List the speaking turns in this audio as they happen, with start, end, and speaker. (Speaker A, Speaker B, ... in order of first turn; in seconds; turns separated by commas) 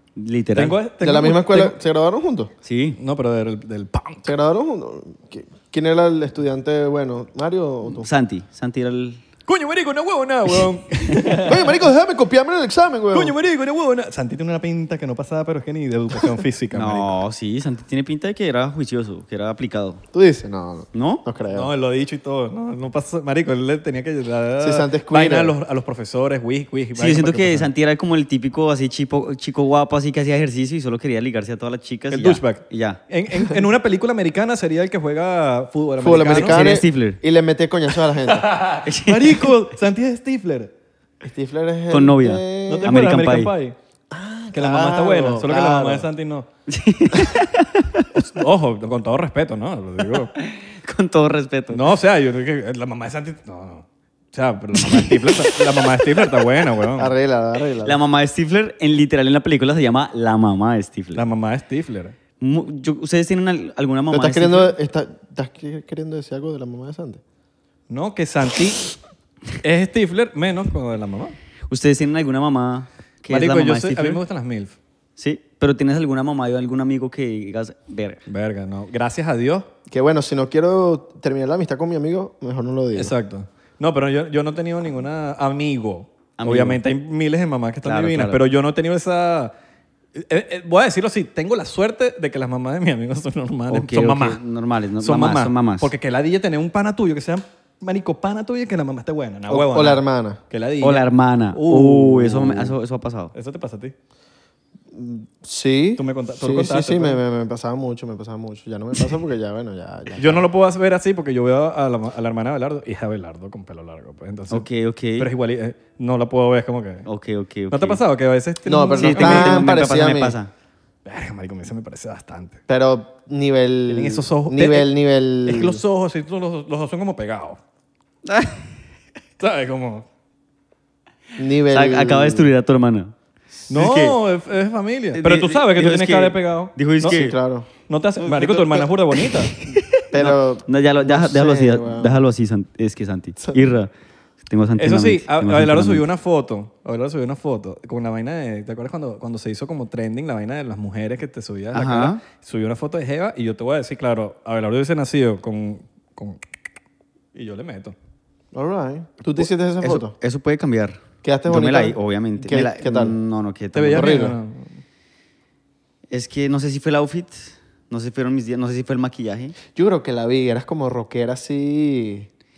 Speaker A: 0.1-0.8, Speaker B: 0.6-1.8, Speaker C: 1.0-2.5, Speaker A: 2.6-3.0, Speaker B: 3.0-4.3, Speaker C: 4.2-8.1, Speaker A: 8.0-9.2, Speaker B: 9.5-11.7, Speaker A: 11.2-11.4, Speaker C: 11.4-13.4, Speaker B: 13.1-17.1, Speaker A: 16.7-20.0, Speaker C: 20.1-21.7, Speaker A: 20.9-21.2, Speaker B: 21.5-27.7, Speaker C: 24.6-25.6, Speaker A: 27.0-33.0, Speaker B: 32.1-36.6, Speaker C: 36.0-38.5, Speaker A: 36.1-37.2, Speaker B: 38.3-40.7, Speaker A: 38.8-39.5, Speaker C: 41.2-42.9, Speaker A: 41.9-43.5, Speaker B: 42.7-43.8, Speaker C: 44.1-46.1, Speaker B: 44.5-46.5, Speaker A: 46.7-48.1, Speaker B: 48.1-50.3, Speaker A: 50.4-51.8, Speaker B: 51.7-57.1, Speaker A: 54.9-56.0, Speaker C: 57.0-58.0, Speaker A: 57.8-61.2, Speaker B: 61.1-62.1, Speaker A: 62.4-64.7, Speaker C: 64.1-67.2, Speaker B: 67.9-68.9, Speaker B: 69.6-71.4, Speaker A: 71.7-74.2, Speaker B: 73.3-74.8, Speaker A: 75.2-78.2, Speaker B: 78.3-79.7, Speaker C: 79.9-83.1, Speaker B: 83.0-89.5, Speaker A: 86.4-86.8, Speaker A: 87.8-88.4, Speaker B: 90.2-94.4, Speaker A: 93.7-95.9, Speaker B: 95.0-102.8, Speaker C: 99.5-100.4, Speaker A: 100.8-103.3, Speaker B: 103.3-103.9, Speaker C: 104.9-110.5, Speaker B: 106.0-107.2, Speaker B: 110.2-114.6, Speaker A: 114.5-115.3, Speaker B: 115.2-117.1, Speaker A: 117.1-118.0, Speaker B: 117.7-119.8, Speaker C: 118.6-120.4, Speaker A: 119.0-120.5, Speaker B: 121.0-122.6, Speaker C: 122.7-125.8, Speaker B: 123.9-124.9, Speaker B: 125.4-127.6, Speaker A: 128.3-128.6, Speaker B: 129.4-130.1, Speaker C: 131.4-132.5, Speaker A: 131.7-133.1, Speaker A: 133.7-134.2, Speaker B: 133.7-137.2, Speaker A: 135.1-137.4, Speaker C: 137.1-137.7, Speaker B: 137.8-139.6, Speaker A: 138.3-143.9, Speaker C: 140.1-142.2, Speaker A: 144.5-146.0, Speaker B: 144.8-156.4, Speaker A: 151.7-152.2, Speaker B: 157.3-157.9, Speaker C: 158.5-160.1, Speaker A: 159.8-164.2, Speaker C: 161.2-163.2, Speaker B: 163.7-164.8, Speaker C: 163.9-164.4, Speaker A: 166.1-169.6, Speaker C: 169.7-172.3